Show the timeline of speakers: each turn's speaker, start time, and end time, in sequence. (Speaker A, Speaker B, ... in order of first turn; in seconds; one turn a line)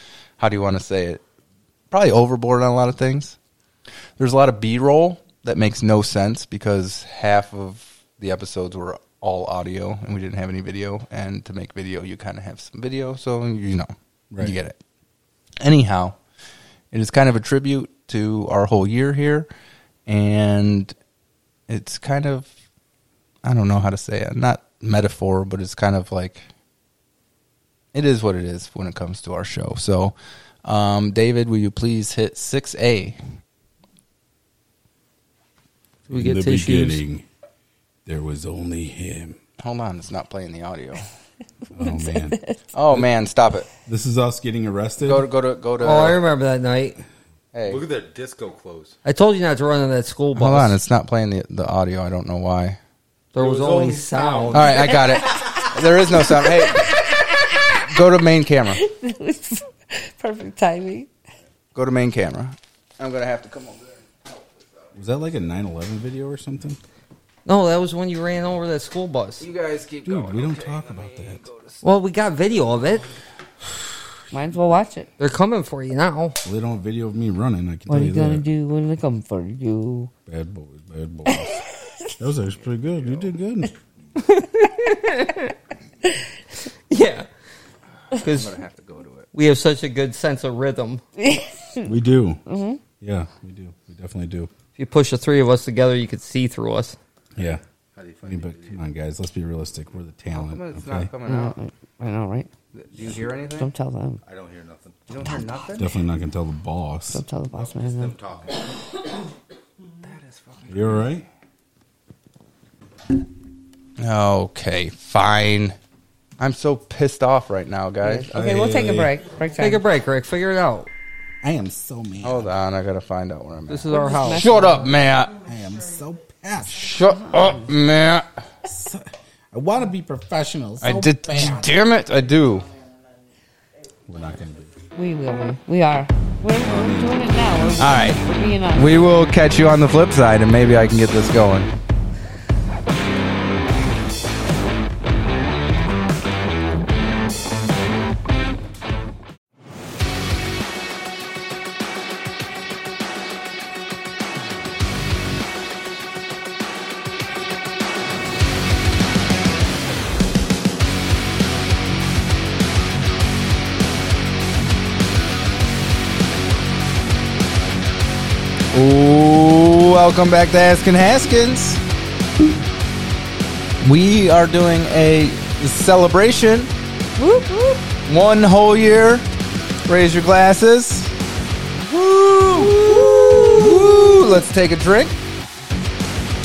Speaker A: 0.4-1.2
Speaker A: 1.9-3.4
Speaker A: 4.2-14.8
Speaker A: 15.6-16.2
Speaker A: 16.9-19.5
Speaker A: 20.1-20.9
Speaker A: 21.7-22.5
Speaker A: 23.4-26.4
Speaker A: 27.9-33.2
Speaker B: 36.1-37.3
Speaker C: 36.1-37.0
Speaker B: 38.1-39.4
Speaker A: 39.6-41.0
Speaker B: 41.8-42.4
Speaker D: 41.8-42.5
Speaker A: 42.7-43.7
Speaker B: 43.9-45.3
Speaker A: 45.0-46.2
Speaker C: 45.8-47.0
Speaker A: 47.5-47.9
Speaker E: 47.6-49.0
Speaker C: 49.0-50.8
Speaker A: 50.4-52.8
Speaker C: 53.3-55.0
Speaker B: 53.4-54.7
Speaker A: 54.5-57.0
Speaker A: 57.8-58.8
Speaker D: 58.8-61.1
Speaker A: 61.8-64.0
Speaker B: 65.0-66.8
Speaker C: 67.5-69.5
Speaker A: 69.4-71.7
Speaker B: 70.0-71.4
Speaker C: 71.8-73.0
Speaker D: 74.3-75.1
Speaker C: 75.2-76.4
Speaker B: 76.5-78.5
Speaker D: 77.9-80.1
Speaker B: 80.3-81.6
Speaker B: 82.2-83.7
Speaker C: 84.3-85.5
Speaker C: 86.9-87.3
Speaker A: 88.2-89.3
Speaker C: 88.2-88.5
Speaker C: 89.3-91.0
Speaker D: 91.2-91.9
Speaker B: 91.8-92.4
Speaker D: 92.5-92.8
Speaker B: 93.0-94.5
Speaker C: 94.8-97.0
Speaker B: 97.4-97.6
Speaker E: 98.0-98.8
Speaker B: 98.2-101.1
Speaker A: 100.3-101.5
Speaker D: 101.3-102.5
Speaker A: 102.7-103.7
Speaker D: 103.6-104.2
Speaker E: 104.2-105.1
Speaker A: 105.1-105.9
Speaker B: 105.8-107.2
Speaker D: 107.1-108.1
Speaker E: 107.5-108.7
Speaker A: 110.0-111.0
Speaker B: 110.7-111.3
Speaker A: 114.0-115.8
Speaker A: 116.4-118.3
Speaker D: 118.0-119.8
Speaker B: 118.3-119.1
Speaker C: 119.6-120.9
Speaker B: 121.4-122.5
Speaker A: 122.2-125.4
Speaker C: 123.7-124.6
Speaker D: 123.9-125.0
Speaker B: 125.4-126.9
Speaker A: 126.8-128.3
Speaker B: 128.7-131.7
Speaker A: 130.8-132.7
Speaker B: 134.1-134.7
Speaker D: 135.0-139.1
Speaker B: 136.6-137.2
Speaker A: 137.8-141.7
Speaker A: 168.7-171.8
Speaker A: 173.8-176.7
Speaker D: 177.2-177.8
Speaker A: 178.1-179.2
Speaker A: 179.9-181.1
Speaker A: 181.9-185.2